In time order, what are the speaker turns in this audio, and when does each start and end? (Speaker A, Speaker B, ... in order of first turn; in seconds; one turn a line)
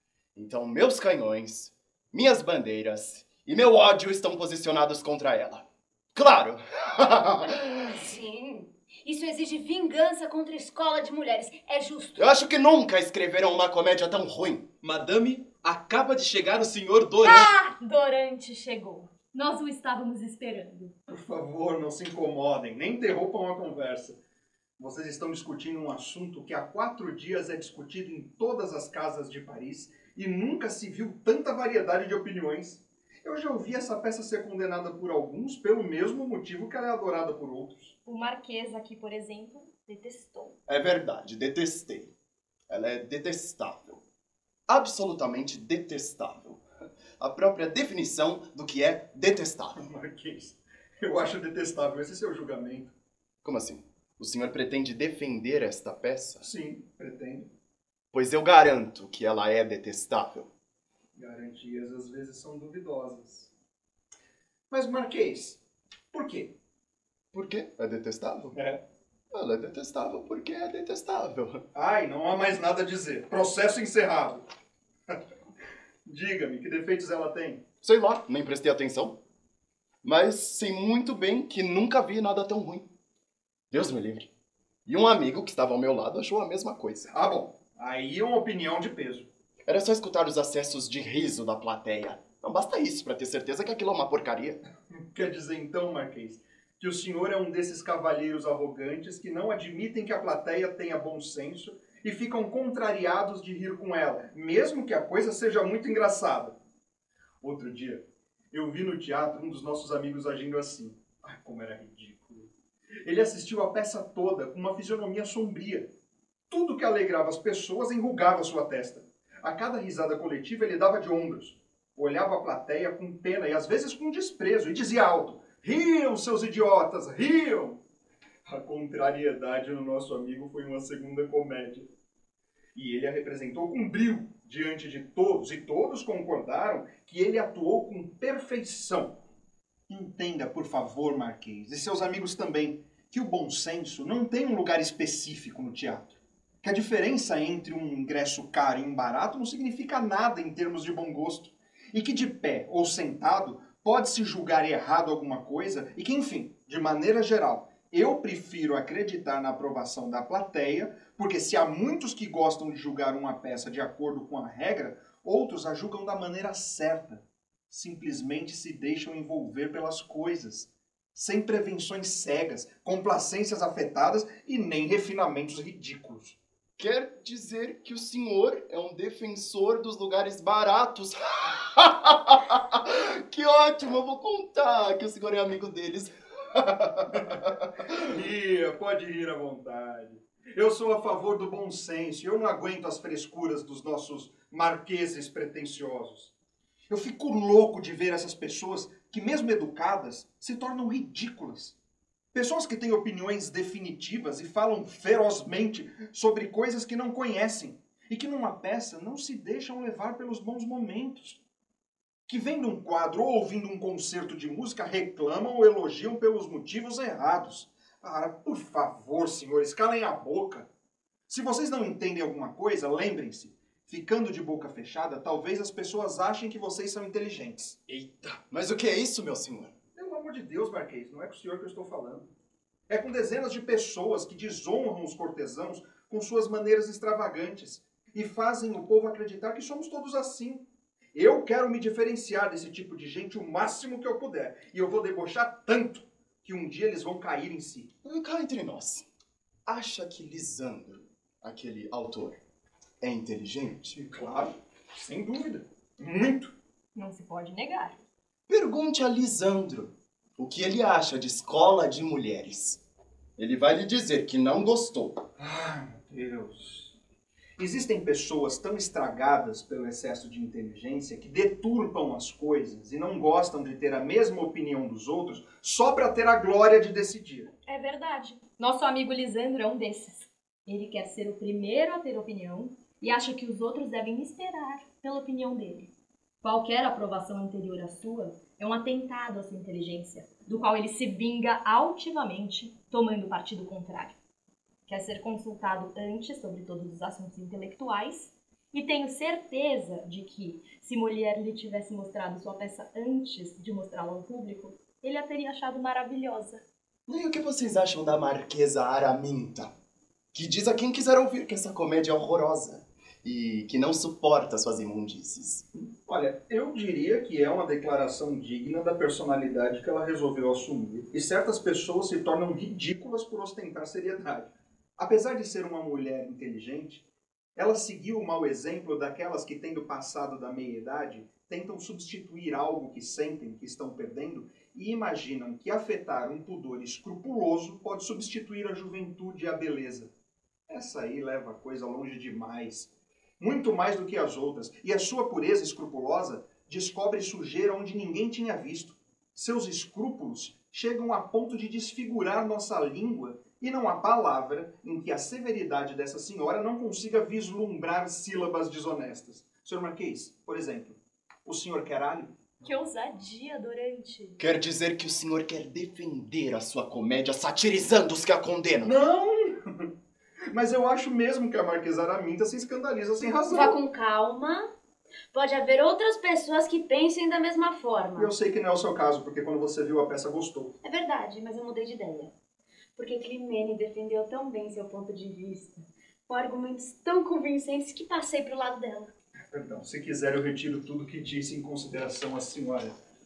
Speaker A: 0.3-7.9
Speaker B: 7.5-12.3
Speaker A: 12.2-14.7
Speaker C: 14.8-17.5
Speaker D: 17.2-20.9
Speaker E: 21.1-24.2
Speaker E: 24.8-37.9
Speaker D: 38.0-40.6
Speaker A: 40.7-42.1
Speaker A: 42.7-44.0
Speaker A: 44.7-46.6
Speaker A: 47.2-49.8
Speaker E: 49.8-52.9
Speaker A: 53.4-56.4
Speaker E: 56.4-57.5
Speaker A: 58.1-60.5
Speaker E: 61.1-63.5
Speaker E: 64.7-65.6
Speaker E: 66.1-66.5
Speaker A: 67.3-68.5
Speaker E: 68.5-68.8
Speaker A: 69.3-71.6
Speaker E: 71.7-74.4
Speaker E: 76.0-77.7
Speaker A: 77.8-79.2
Speaker A: 80.0-82.8
Speaker A: 83.7-84.3
Speaker A: 84.8-87.1
Speaker E: 87.1-89.3
Speaker A: 89.7-94.6
Speaker E: 95.1-106.5
Speaker E: 107.4-112.5
Speaker E: 113.0-115.9
Speaker E: 116.5-127.8
Speaker E: 128.4-131.9
Speaker E: 132.7-139.2
Speaker E: 139.9-176.4
Speaker A: 176.8-188.0
Speaker E: 188.0-196.3
Speaker E: 196.9-201.8
Speaker E: 202.3-211.4
Speaker E: 212.3-220.7
Speaker E: 221.3-227.8
Speaker A: 228.1-229.7
Speaker E: 229.9-232.3
Speaker E: 232.9-247.9
Speaker A: 248.0-249.0
Speaker A: 249.7-252.4
Speaker A: 253.0-253.9
Speaker E: 253.9-256.5
Speaker D: 256.9-258.0
Speaker A: 258.5-262.8
Speaker A: 263.4-265.2
Speaker E: 265.4-266.9
Speaker E: 267.6-277.5
Speaker D: 277.6-285.9
Speaker D: 286.4-294.2
Speaker D: 294.9-306.6
Speaker A: 307.1-309.7
Speaker A: 310.3-315.6
Speaker E: 315.8-327.0
Speaker E: 327.6-340.1
Speaker E: 340.7-362.3
Speaker D: 362.6-364.4
Speaker A: 364.4-368.9
Speaker E: 368.8-369.9
Speaker E: 370.5-373.8
Speaker B: 373.5-374.7
Speaker B: 375.3-378.3
Speaker E: 378.2-380.7
Speaker B: 380.8-382.3
Speaker B: 382.9-389.1
Speaker E: 389.5-392.9